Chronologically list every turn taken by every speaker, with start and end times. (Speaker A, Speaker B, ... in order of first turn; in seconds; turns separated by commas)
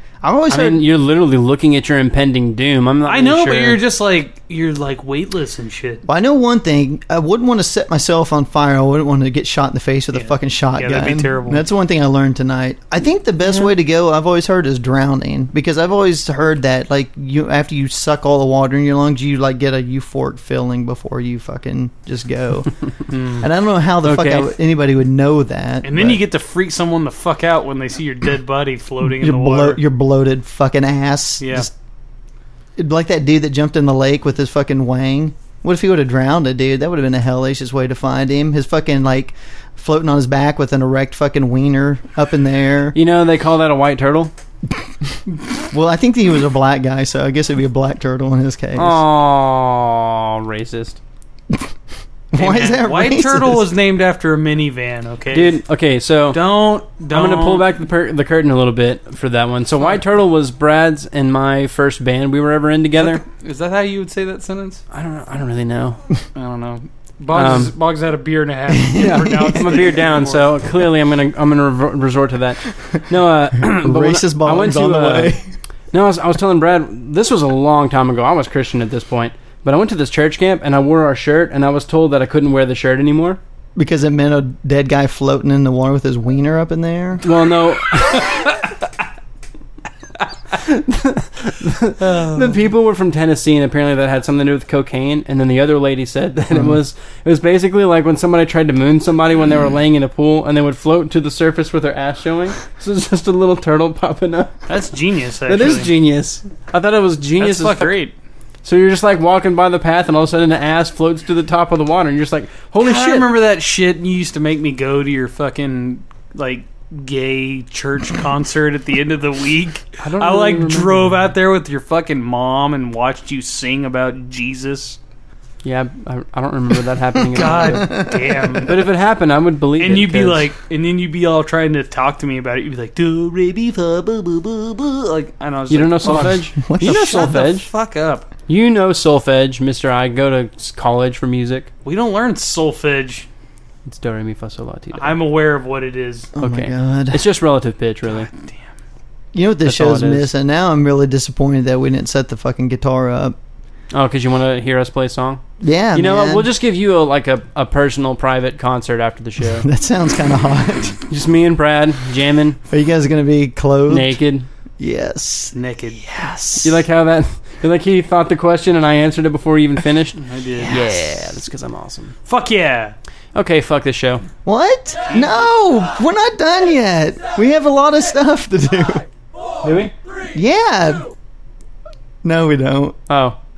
Speaker A: 0.2-0.8, Speaker B: 0.5-3.8, Speaker C: 3.1-6.0, Speaker A: 6.1-22.7, Speaker C: 10.1-11.6, Speaker C: 23.1-23.4, Speaker A: 23.4-26.2, Speaker B: 24.0-24.5, Speaker C: 25.8-29.8, Speaker A: 29.0-31.7, Speaker C: 31.4-31.7, Speaker A: 32.8-43.0, Speaker B: 42.9-44.3, Speaker A: 45.7-49.0, Speaker B: 48.8-51.0, Speaker A: 52.3-53.6, Speaker C: 52.3-55.6, Speaker B: 55.3-56.4, Speaker C: 56.3-57.6, Speaker B: 57.1-63.2, Speaker C: 63.0-64.8, Speaker B: 64.9-66.0, Speaker C: 66.3-70.5, Speaker B: 67.3-67.7, Speaker A: 68.7-69.8, Speaker B: 69.0-75.3, Speaker A: 73.6-75.5, Speaker B: 75.9-83.4, Speaker A: 83.8-87.2, Speaker B: 87.2-88.2, Speaker B: 90.5-104.6, Speaker C: 92.0-92.6, Speaker C: 104.7-105.9, Speaker B: 105.5-108.0, Speaker C: 107.4-108.1, Speaker B: 108.6-113.3, Speaker C: 112.8-125.0, Speaker B: 120.0-121.2, Speaker B: 125.6-128.0, Speaker C: 127.3-128.8, Speaker A: 127.5-128.6, Speaker B: 128.6-130.5, Speaker C: 129.8-138.3, Speaker B: 135.7-137.7, Speaker A: 136.0-137.3, Speaker B: 138.5-141.7, Speaker C: 141.8-143.3, Speaker B: 143.8-145.2, Speaker C: 144.9-146.3, Speaker A: 146.3-147.2, Speaker B: 146.4-148.3, Speaker C: 148.1-148.6, Speaker A: 149.3-153.3, Speaker B: 149.6-150.3, Speaker B: 153.9-155.4, Speaker A: 155.6-156.5, Speaker B: 155.9-159.7, Speaker A: 159.6-161.0, Speaker B: 161.1-162.6, Speaker A: 162.7-164.2, Speaker B: 163.9-164.5, Speaker A: 164.8-165.5, Speaker C: 165.5-166.0, Speaker A: 166.2-166.6, Speaker B: 166.6-172.1, Speaker C: 170.2-170.9, Speaker C: 172.2-172.9, Speaker B: 173.3-174.2, Speaker A: 174.4-179.1, Speaker C: 175.1-175.4, Speaker B: 179.6-179.9, Speaker A: 180.3-181.1, Speaker A: 182.2-183.0, Speaker B: 183.1-183.4